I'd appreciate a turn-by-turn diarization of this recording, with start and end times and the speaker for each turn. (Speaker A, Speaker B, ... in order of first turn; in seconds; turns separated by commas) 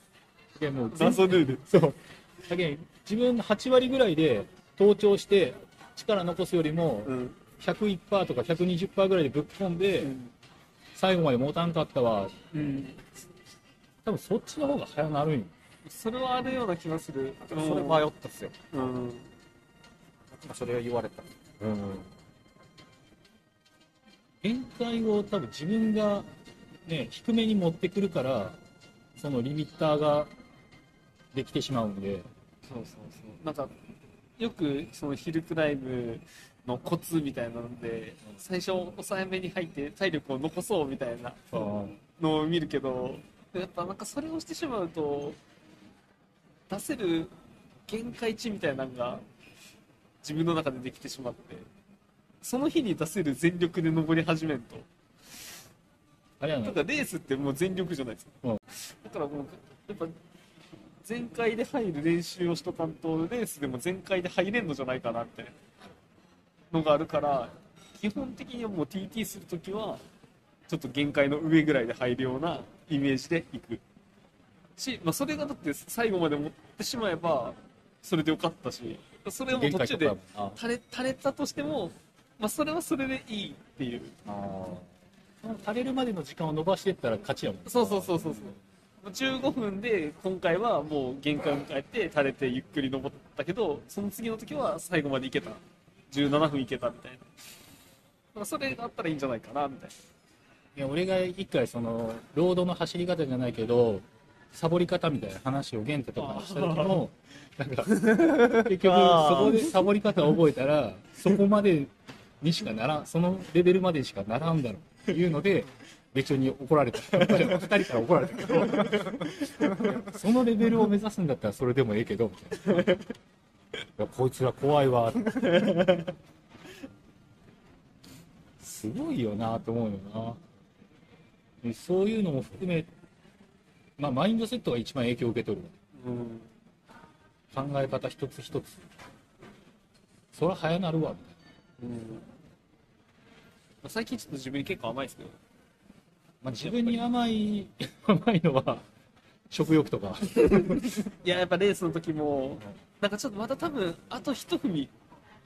Speaker A: 0.6-10.1, Speaker B: 0.9-1.7, Speaker B: 7.0-7.4, Speaker B: 10.0-10.3, Speaker A: 10.9-12.3, Speaker B: 12.5-13.1, Speaker A: 14.0-15.5, Speaker B: 15.8-18.1, Speaker C: 17.5-18.6, Speaker B: 18.7-19.3, Speaker C: 20.3-21.3, Speaker A: 21.6-22.1, Speaker A: 24.4-26.3, Speaker A: 26.9-28.6, Speaker A: 29.2-30.3, Speaker A: 31.3-32.3, Speaker B: 32.6-33.7, Speaker B: 34.4-45.4, Speaker A: 41.5-42.0, Speaker B: 46.7-47.3, Speaker B: 47.9-49.2, Speaker B: 50.2-51.7, Speaker B: 52.4-54.9, Speaker A: 56.4-56.8, Speaker B: 56.6-60.1, Speaker B: 61.0-65.5, Speaker B: 66.7-70.0, Speaker B: 70.7-73.8, Speaker B: 74.8-84.1, Speaker A: 79.5-80.6, Speaker A: 84.3-84.9, Speaker A: 85.4-88.6, Speaker B: 87.7-97.2, Speaker B: 98.3-99.9, Speaker A: 100.7-123.0, Speaker B: 106.2-107.0, Speaker C: 108.2-109.8, Speaker B: 119.0-119.7, Speaker A: 124.0-125.8, Speaker B: 125.4-126.1, Speaker A: 128.6-130.4, Speaker A: 131.6-132.9, Speaker A: 134.0-135.7, Speaker B: 136.0-136.5, Speaker A: 137.5-138.8, Speaker A: 140.3-141.4, Speaker B: 141.8-142.3, Speaker B: 143.8-145.4, Speaker A: 146.4-148.9, Speaker B: 146.6-146.9, Speaker A: 149.5-151.1, Speaker B: 150.4-154.9